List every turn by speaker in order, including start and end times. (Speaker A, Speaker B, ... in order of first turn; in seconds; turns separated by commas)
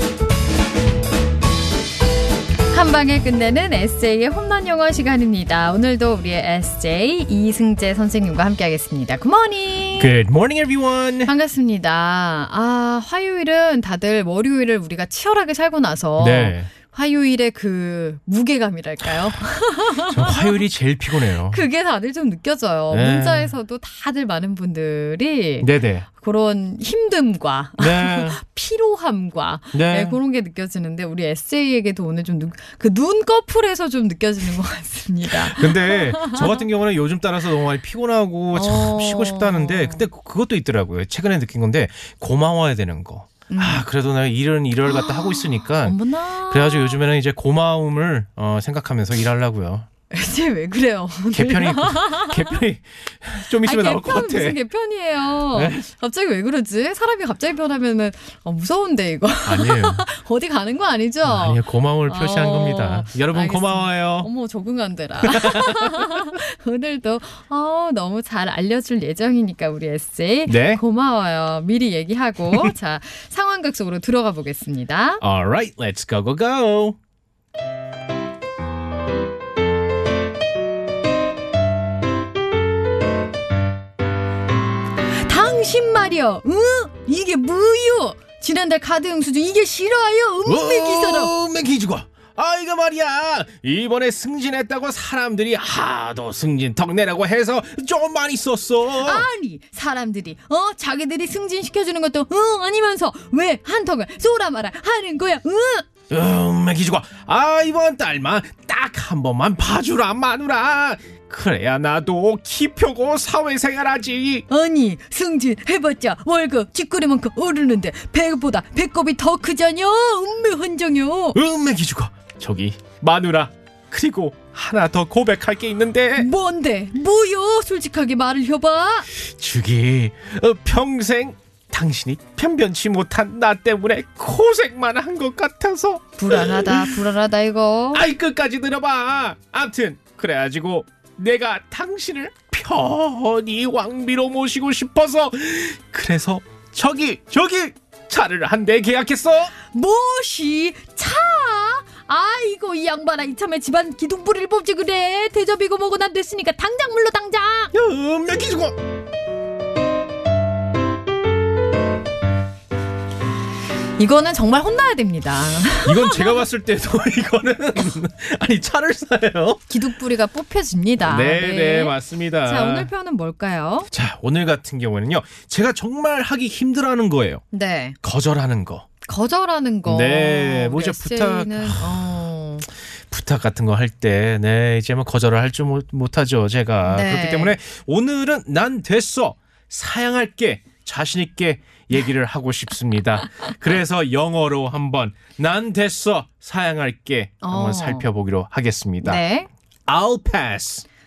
Speaker A: 2.7-10.1, Speaker B: 10.0-11.3, Speaker A: 11.3-20.6, Speaker B: 16.2-16.7, Speaker B: 20.0-21.6, Speaker A: 21.3-36.6, Speaker B: 22.9-23.5, Speaker B: 25.6-26.1, Speaker B: 27.8-28.4, Speaker B: 29.7-30.2, Speaker B: 35.3-49.9, Speaker A: 38.5-40.0, Speaker A: 43.5-43.9, Speaker A: 44.9-47.0, Speaker A: 50.1-52.6, Speaker B: 51.3-54.6, Speaker A: 53.6-75.2, Speaker B: 55.5-55.9, Speaker B: 59.5-60.1, Speaker B: 61.2-64.3, Speaker B: 65.2-66.3, Speaker B: 70.5-70.8, Speaker B: 75.2-77.0, Speaker A: 85.2-91.3, Speaker B: 90.5-99.3, Speaker A: 99.0-105.9, Speaker B: 106.1-114.5, Speaker A: 114.5-121.4, Speaker B: 121.3-126.3, Speaker A: 126.2-129.1, Speaker B: 129.2-137.0, Speaker A: 136.2-138.1, Speaker B: 137.9-149.5, Speaker A: 149.7-157.7, Speaker B: 157.7-158.7, Speaker A: 164.0-166.4, Speaker B: 165.9-169.7, Speaker A: 169.7-173.9, Speaker B: 171.0-172.9, Speaker B: 173.9-177.4, Speaker A: 177.5-178.0, Speaker B: 178.0-178.9, Speaker A: 179.1-182.7, Speaker B: 179.9-182.1, Speaker B: 183.1-199.2, Speaker A: 186.8-187.6, Speaker A: 197.4-198.1, Speaker A: 199.0-199.5, Speaker B: 199.9-200.8